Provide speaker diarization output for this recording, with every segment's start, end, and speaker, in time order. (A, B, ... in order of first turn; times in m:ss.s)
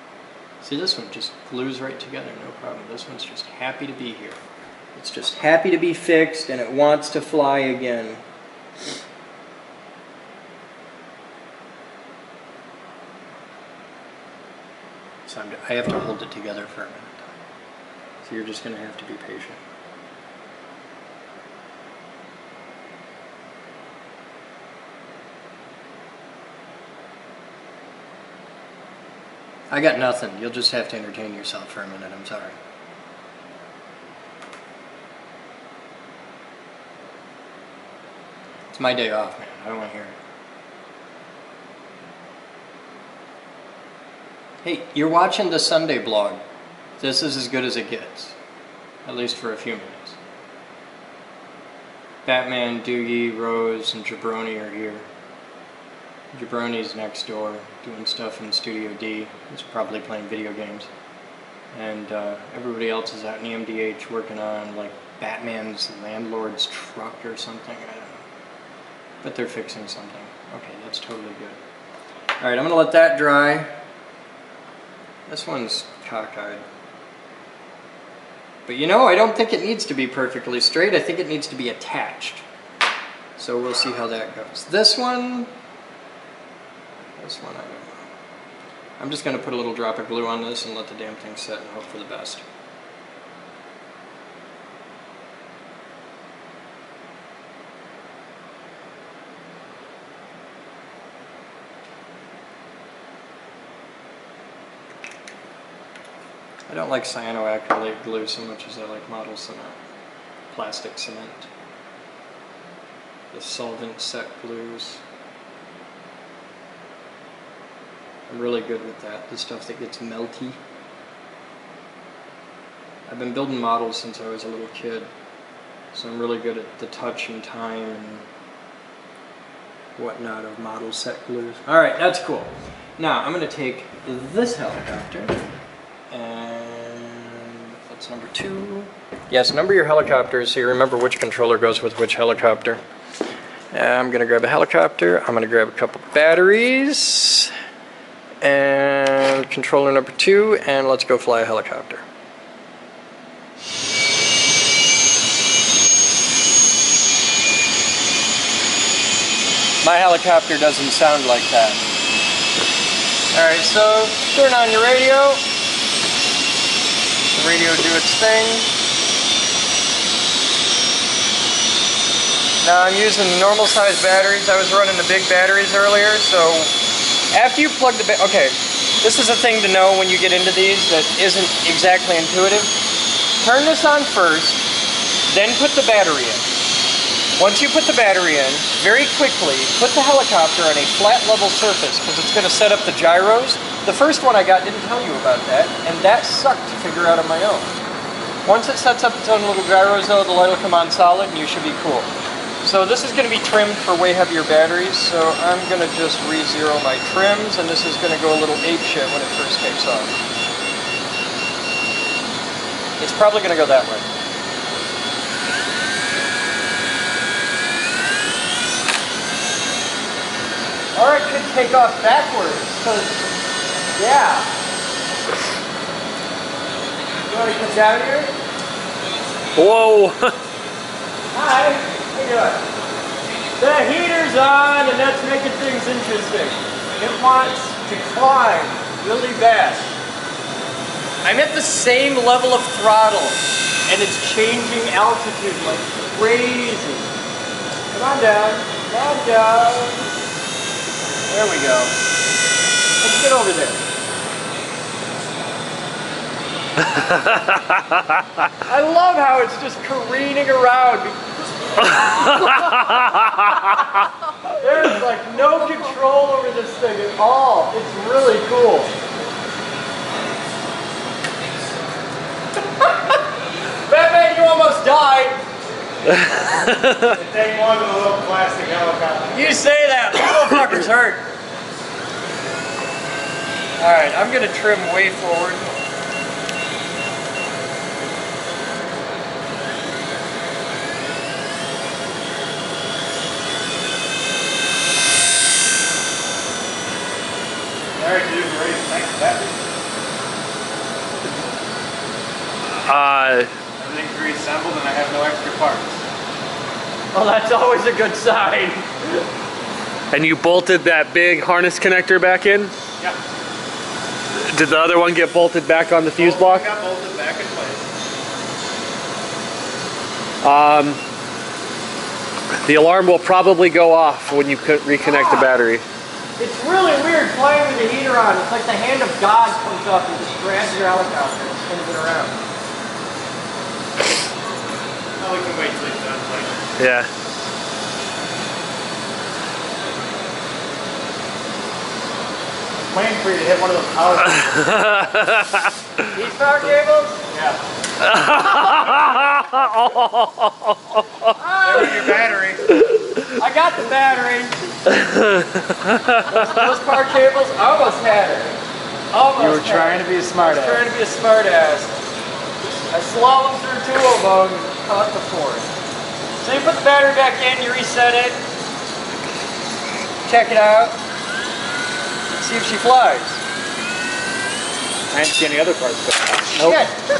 0:00.6-0:04.4 A
0:04.9-0:08.2 A
0:15.2-0:17.4 A
0:18.2-0:19.6 A
0:29.7-0:32.6 A
0:38.7-0:40.2 A
0:44.6-0:46.4 A
0:47.0-0:48.4 A
0:49.0-0:50.2 A
0:52.2-0:55.1 A
0:56.3-1:00.9 A
1:01.7-1:08.2 A
1:09.2-1:11.6 A
1:12.4-1:13.7 A
1:15.3-1:16.6 A
1:18.6-1:22.4 A
1:23.4-1:25.5 A
1:27.2-1:28.1 A
1:29.0-1:32.4 A
1:46.7-1:49.8 A
1:50.5-1:51.5 A
1:53.3-1:55.0 A
1:58.3-2:00.6 A
2:03.1-2:05.1 A
2:05.9-2:08.3 A
2:10.0-2:15.4 A
2:16.1-2:22.8 A
2:23.7-2:27.5 A
2:28.4-2:32.0 A
2:39.8-2:41.8 A
2:43.3-2:45.4 A
2:47.3-2:48.7 A
2:52.6-2:56.7 A
2:57.3-3:02.8 A
3:03.4-3:04.6 A
3:05.3-3:06.5 A
3:07.4-3:17.7 A
3:18.4-3:22.1 A
3:22.6-3:30.1 A
3:33.0-3:34.1 A
3:40.9-3:43.2 A
3:43.9-3:44.5 A
3:47.2-3:48.3 A
3:49.5-3:50.4 B
3:51.3-3:52.6 A
3:53.6-3:59.9 A
4:01.2-4:07.1 A
4:07.9-4:10.0 A
4:11.3-4:11.9 A
4:13.0-4:13.8 A
4:18.6-4:23.0 A
4:24.5-4:28.9 A
4:33.9-4:35.4 A
4:37.1-4:39.6 C
4:39.3-4:41.2 A
4:43.8-4:45.6 A
4:58.0-4:59.5 C
5:02.8-5:03.5 B
5:03.8-5:06.0 C
5:07.1-5:09.2 A
5:10.1-5:12.7 B
5:14.3-5:16.6 B
5:16.2-5:17.9 C
5:20.4-5:21.0 B
5:22.6-5:25.8 B
5:25.0-5:25.5 A
5:26.4-5:32.4 A
5:35.2-5:36.6 C
5:36.8-5:37.1 B
5:42.9-5:44.7 C
5:44.6-5:45.7 B
5:46.1-5:47.2 A
5:47.3-5:47.6 C
5:48.0-5:50.5 B
5:51.4-5:52.2 A
5:51.6-5:52.6 C
5:53.4-5:54.6 A
5:54.9-5:56.1 B
5:56.3-5:58.6 A
5:59.1-6:01.9 A
5:59.4-6:00.9 C
6:02.9-6:05.7 A
6:06.4-6:08.4 A
6:10.2-6:11.0 A
6:12.4-6:13.4 A
6:15.1-6:16.8 C
6:16.5-6:17.0 A